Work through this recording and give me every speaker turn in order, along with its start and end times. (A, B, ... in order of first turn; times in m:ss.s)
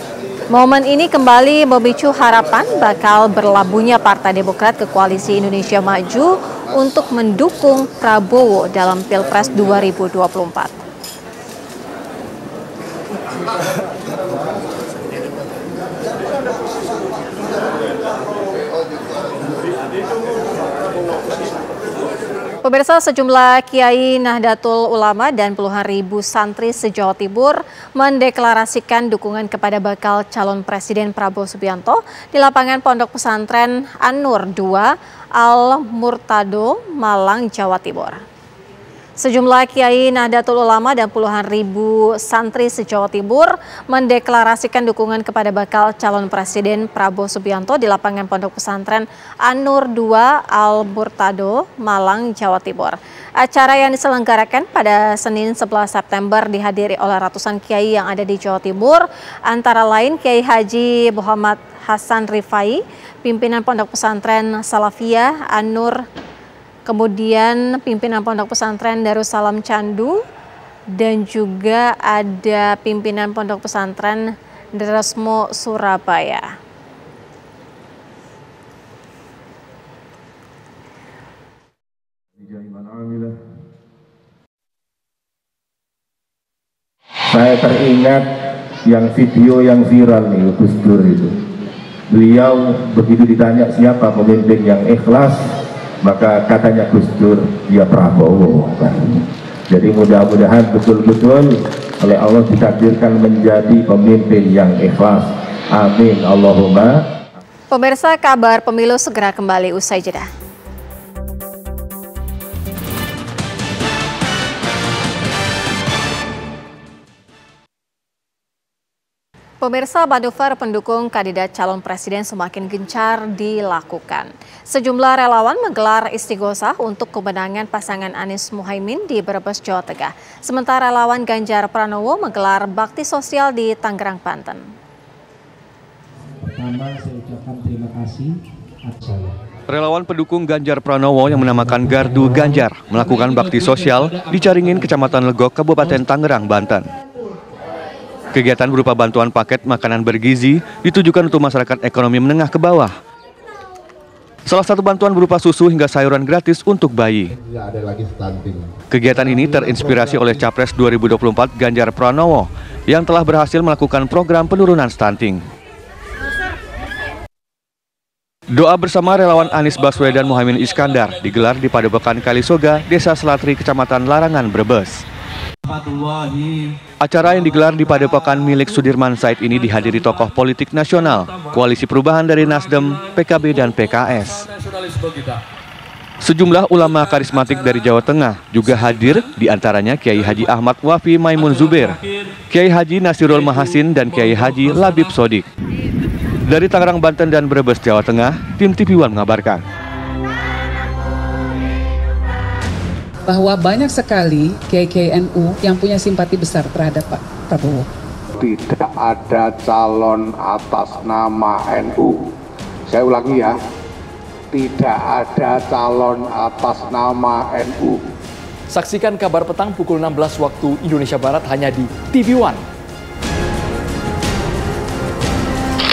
0:00.5-0:10.7 A
0:22.6-0:38.2 A
0:39.2-1:06.0 A
1:06.8-1:10.2 A
1:11.0-1:16.5 A
1:22.4-1:23.3 B
1:27.3-1:28.2 B
1:28.8-1:31.3 B
1:32.1-1:35.4 B
1:36.0-1:38.9 B
1:39.7-1:47.0 B
1:47.7-1:50.3 A
1:59.6-2:14.6 A
2:16.4-2:18.3 C
2:18.8-2:19.3 C
2:19.7-2:26.9 D
2:21.4-2:22.6 C
2:28.3-2:32.9 D
2:34.5-2:37.3 D
2:38.9-2:45.4 D
2:48.6-2:55.0 D
2:57.0-3:04.5 D
3:06.2-3:12.0 D
3:12.5-3:15.4 D
3:16.4-3:19.6 D
3:23.3-3:27.8 E
3:28.4-3:32.3 F
3:32.9-3:33.6 F
3:34.5-3:38.0 F
3:39.0-3:42.5 G